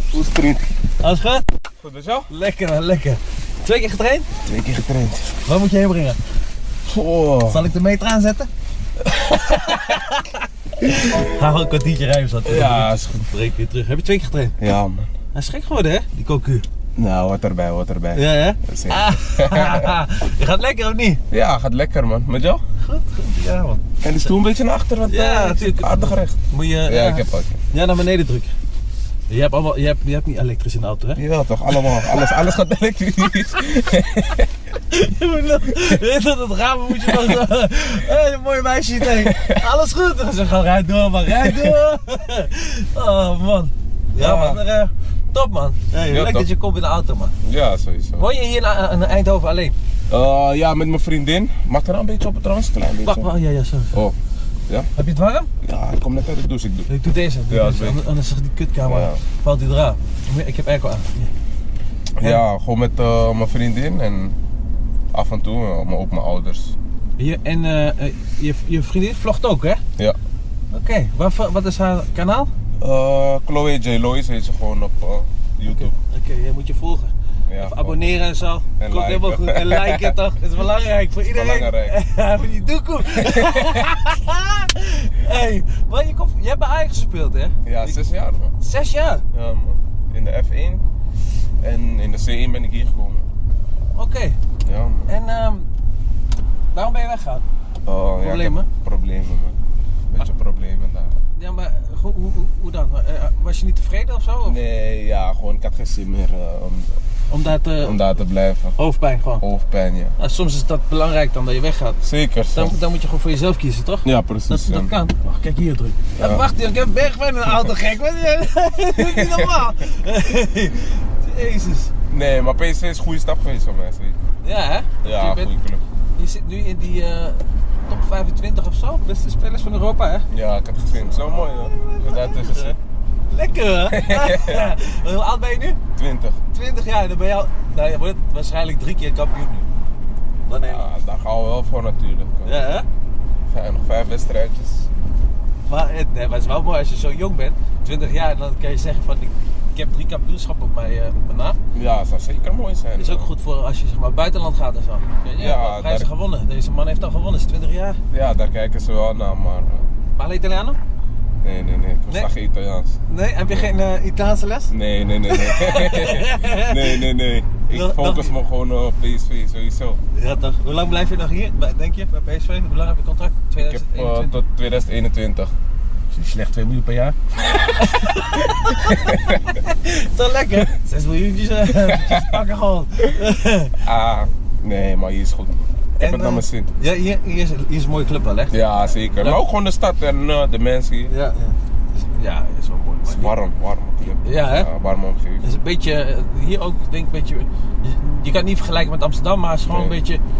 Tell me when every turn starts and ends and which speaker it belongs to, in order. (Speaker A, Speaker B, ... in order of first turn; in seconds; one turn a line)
Speaker A: 0.1-0.7
Speaker B: 1.0-1.4
Speaker A: 1.8-2.3
Speaker B: 2.3-4.3
Speaker A: 4.5-5.4
Speaker B: 5.5-6.2
Speaker A: 6.9-7.7
Speaker B: 7.5-8.5
Speaker A: 9.2-9.9
Speaker B: 9.3-14.6
Speaker A: 12.4-13.3
Speaker A: 14.6-15.1
Speaker B: 15.3-16.7
Speaker A: 17.0-20.0
Speaker B: 18.1-21.2
Speaker A: 21.3-22.6
Speaker B: 22.8-23.8
Speaker A: 24.0-27.6
Speaker B: 25.1-28.5
Speaker B: 29.3-31.2
Speaker A: 31.2-34.5
Speaker B: 32.0-32.3
Speaker B: 34.9-47.3
Speaker A: 37.0-37.4
Speaker A: 39.0-39.6
Speaker A: 41.3-41.8
Speaker A: 44.2-44.6
Speaker A: 46.0-46.5
Speaker A: 47.4-48.3
Speaker B: 48.2-49.8
Speaker A: 50.1-53.3
Speaker B: 53.0-54.0
Speaker B: 55.0-55.5
Speaker A: 55.6-56.9
Speaker B: 56.9-61.3
Speaker A: 57.5-58.0
Speaker A: 58.9-59.2
Speaker A: 62.2-64.4
Speaker A: 65.1-66.8
Speaker B: 67.2-69.8
Speaker B: 70.7-72.5
Speaker A: 72.8-75.9
Speaker B: 75.7-88.0
Speaker A: 77.5-78.1
Speaker A: 78.8-80.1
Speaker A: 81.3-82.0
Speaker A: 83.1-84.0
Speaker A: 87.7-88.5
Speaker B: 88.6-89.2
Speaker A: 89.3-90.8
Speaker A: 91.6-93.3
Speaker B: 94.0-94.4
Speaker A: 94.6-95.1
Speaker B: 95.1-95.7
Speaker B: 96.7-97.4
Speaker A: 97.8-99.6
Speaker B: 98.2-98.7
Speaker A: 100.1-101.2
Speaker B: 101.3-104.6
Speaker A: 104.5-107.0
Speaker B: 107.3-108.0
Speaker A: 107.8-108.8
Speaker B: 108.8-109.5
Speaker A: 109.4-110.2
Speaker B: 110.2-112.0
Speaker A: 112.0-112.8
Speaker B: 112.5-121.9
Speaker A: 114.0-114.9
Speaker A: 116.2-116.5
Speaker A: 118.9-119.7
Speaker A: 122.1-124.2
Speaker B: 124.4-125.5
Speaker A: 125.0-125.8
Speaker B: 126.2-130.3
Speaker A: 130.3-132.8
Speaker B: 131.0-132.8
Speaker B: 133.3-135.8
Speaker A: 133.9-134.7
Speaker A: 136.0-136.4
Speaker B: 136.5-139.7
Speaker B: 140.5-140.9
Speaker A: 140.6-142.7
Speaker B: 142.4-142.9
Speaker A: 143.5-144.9
Speaker B: 145.7-151.6
Speaker A: 151.7-153.3
Speaker B: 153.0-158.0
Speaker A: 155.4-156.1
Speaker A: 158.1-159.9
Speaker B: 160.2-160.8
Speaker A: 161.4-163.7
Speaker B: 163.1-164.7
Speaker A: 164.7-170.0
Speaker B: 165.3-167.1
Speaker B: 167.7-168.4
Speaker B: 170.1-174.4
Speaker A: 173.6-175.5
Speaker B: 176.1-183.8
Speaker A: 178.4-179.5
Speaker A: 181.7-182.4
Speaker A: 183.8-186.7
Speaker B: 186.0-188.6
Speaker A: 188.5-191.1
Speaker B: 191.1-193.3
Speaker A: 193.1-195.6
Speaker B: 194.2-194.7
Speaker B: 195.4-200.2
Speaker A: 199.7-199.9